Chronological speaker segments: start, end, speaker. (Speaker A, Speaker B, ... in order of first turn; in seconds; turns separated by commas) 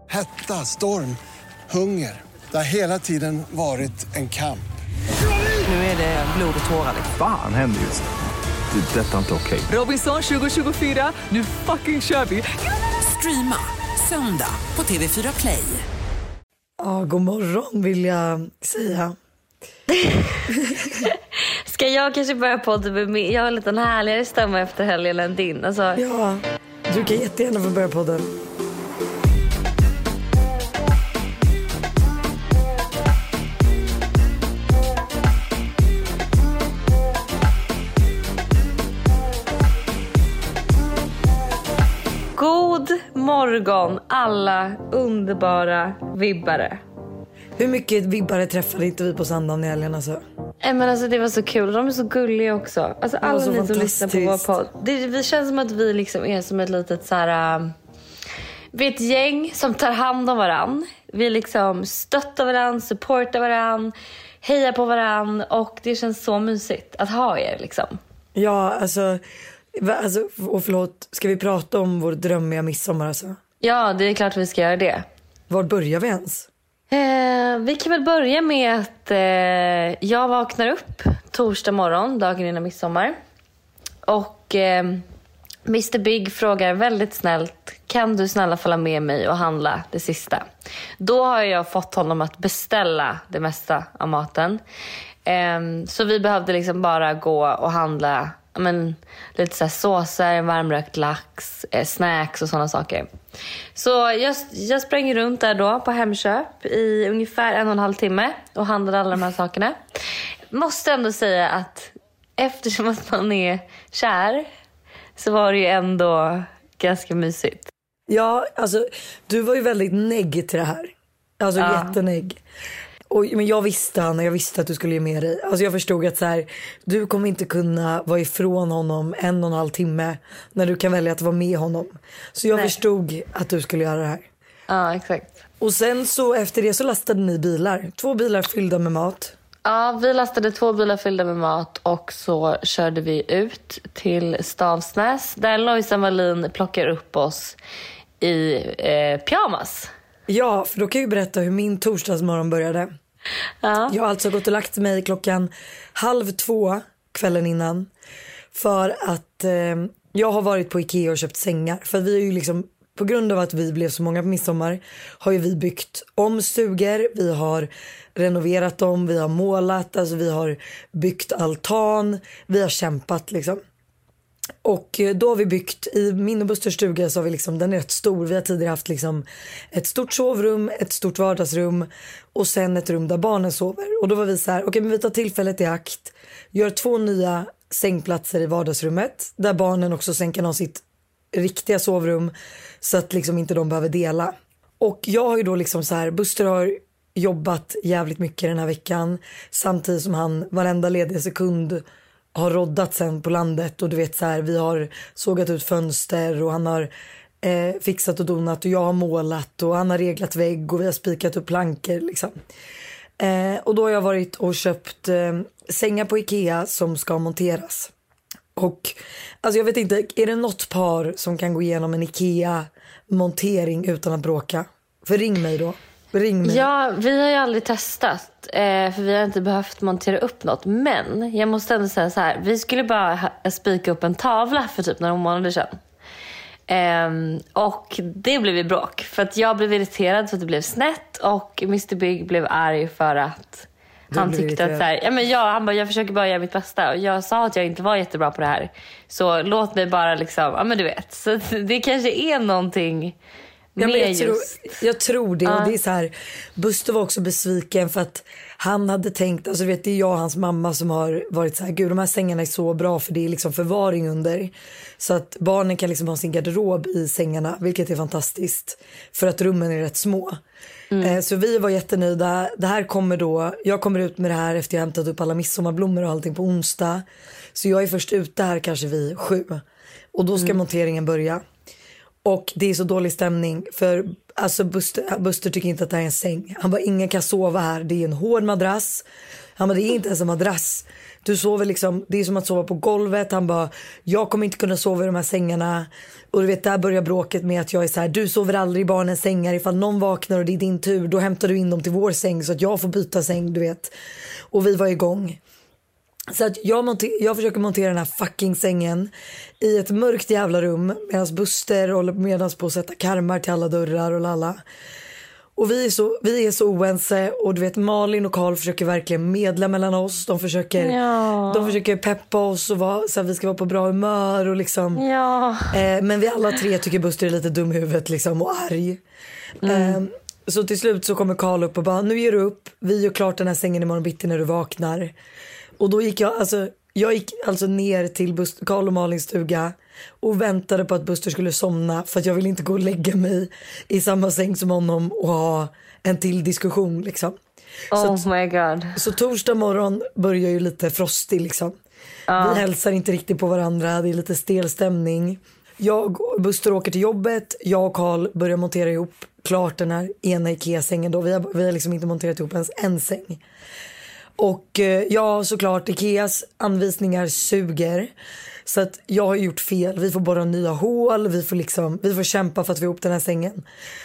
Speaker A: 0.1-1.2, Speaker A: 1.7-4.6, Speaker B: 5.6-7.1, Speaker C: 7.1-8.1, Speaker C: 8.7-9.7, Speaker B: 9.7-15.8, Speaker D: 16.8-19.2, Speaker D: 20.5-21.1, Speaker E: 21.7-26.0, Speaker D: 26.0-28.3, Speaker E: 42.4-46.8, Speaker D: 47.6-50.2, Speaker E: 50.6-57.7, Speaker D: 53.2-54.5, Speaker E: 58.7-68.0, Speaker D: 68.3-69.2, Speaker D: 69.8-73.4, Speaker E: 73.6-75.0, Speaker D: 75.5-76.5, Speaker E: 76.9-83.2, Speaker E: 84.1-85.0, Speaker E: 85.7-90.5, Speaker E: 91.0-94.6, Speaker E: 95.3-103.1, Speaker E: 103.8-109.8, Speaker E: 110.5-114.5, Speaker E: 115.2-117.7, Speaker D: 118.1-122.4, Speaker E: 121.6-122.0, Speaker D: 123.1-134.3, Speaker E: 134.7-135.3, Speaker D: 135.6-139.3, Speaker E: 139.7-147.6, Speaker E: 148.2-149.9, Speaker D: 150.3-152.9, Speaker E: 153.6-153.9, Speaker D: 153.9-157.9, Speaker D: 158.5-173.6, Speaker D: 174.6-201.8, Speaker D: 202.3-206.9, Speaker D: 207.4-212.3, Speaker D: 213.2-217.9, Speaker D: 218.6-226.7, Speaker E: 226.4-235.8, Speaker E: 236.7-253.2, Speaker D: 244.1-244.9, Speaker E: 253.8-254.7, Speaker D: 253.8-270.4, Speaker E: 255.5-255.7, Speaker E: 270.9-271.2, Speaker D: 271.0-279.6, Speaker D: 280.1-281.4, Speaker D: 282.2-289.1, Speaker D: 289.6-303.9, Speaker D: 304.5-305.4, Speaker D: 306.3-314.6, Speaker D: 315.6-321.0, Speaker E: 320.8-321.8, Speaker D: 321.5-325.0, Speaker E: 325.0-325.8, Speaker D: 325.7-329.0, Speaker E: 329.6-330.0, Speaker D: 329.6-335.1, Speaker D: 335.8-347.4, Speaker E: 347.9-349.0, Speaker D: 347.9-348.2, Speaker D: 349.0-351.8, Speaker E: 352.3-352.6, Speaker D: 352.4-363.4, Speaker D: 364.4-368.1, Speaker D: 368.7-373.6